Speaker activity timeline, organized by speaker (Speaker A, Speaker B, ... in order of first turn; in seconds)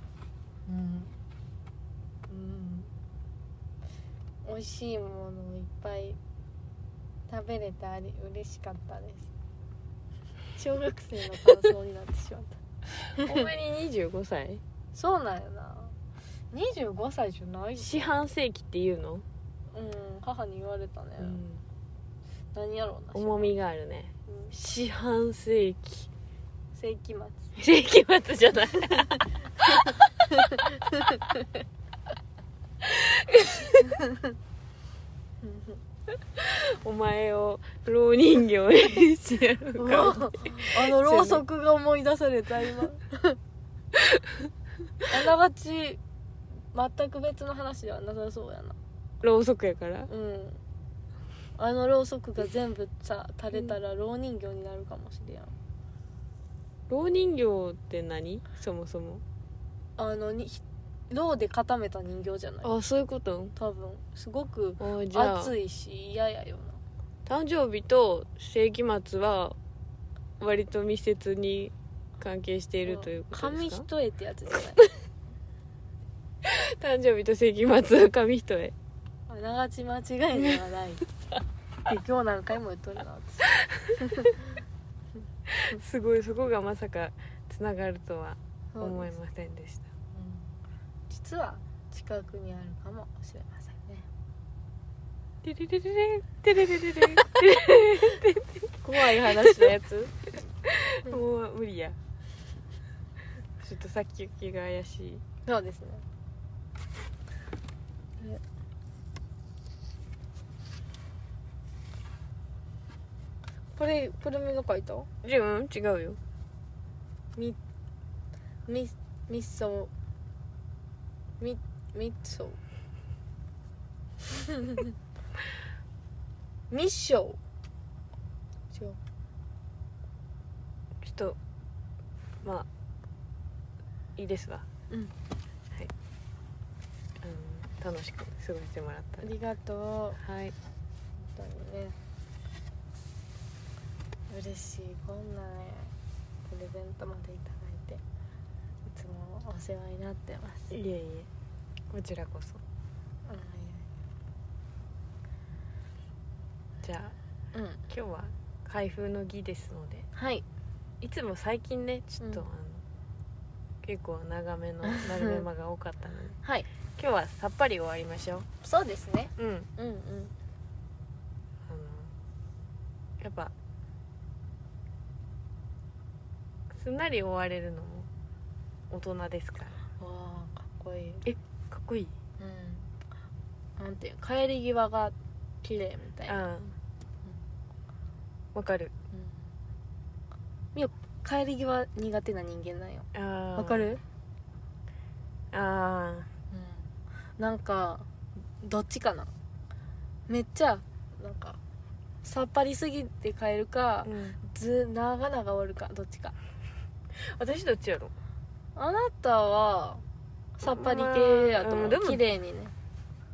Speaker A: 0.7-1.1, 2.3-2.9, 4.4-6.2, 7.3-9.3, 10.6-12.6, 13.2-13.4, 14.9-15.9, 16.5-18.3, 19.7-21.4, 22.5-23.5, 24.3-24.5, 26.7-27.5, 35.4-35.8, 39.8-43.4, 45.1-46.0, 46.7-48.7, 50.1-50.6, 51.6-55.5, 60.0-62.7, 63.5-66.8, 72.8-74.9, 79.3-81.1, 81.8-84.4, 88.7-89.1, 90.1-90.5, 91.1-94.0, 98.8-99.8, 105.4-106.0, 113.8-115.1, 118.7-119.9, 121.4-122.6, 126.7-127.4, 128.7-129.0, 139.2-140.2, 141.2-142.0, 144.3-145.9, 146.5-148.0, 148.9-150.7, 153.2-153.9, 157.5-157.8, 160.1-160.4, 164.8-165.4, 168.6-170.3, 180.0-181.2, 182.4-182.9, 183.8-186.5, 189.1-189.4, 190.7-194.0, 196.5-198.1, 198.6-199.3, 200.3-201.6, 202.2-206.3, 208.7-210.0, 210.6-212.7
Speaker B: 13.2-14.6, 17.8-19.2, 21.2-21.6, 23.1-26.1, 27.6-29.9, 32.8-33.9, 36.4-41.4, 49.2-50.1, 56.9-59.2, 62.6-63.5, 64.8-65.5, 67.2-69.5, 70.4-73.8, 76.4-78.7, 85.5-89.8, 95.4-100.1, 100.6-102.0, 103.6-105.2, 115.2-116.2, 131.0-131.4, 134.2-134.6, 137.2-139.3, 140.2-140.5, 150.7-151.3, 151.9-152.6, 156.8-157.1, 157.9-160.1, 161.0-162.8, 163.8-166.4, 167.0-168.5, 169.4-169.7, 171.7-172.1, 173.2-173.5, 176.7-178.1, 178.9-179.8, 181.2-182.1, 186.2-186.8, 188.5-188.9, 193.1-193.9, 195.5-196.3, 204.0-204.4, 207.1-208.1, 210.6-212.2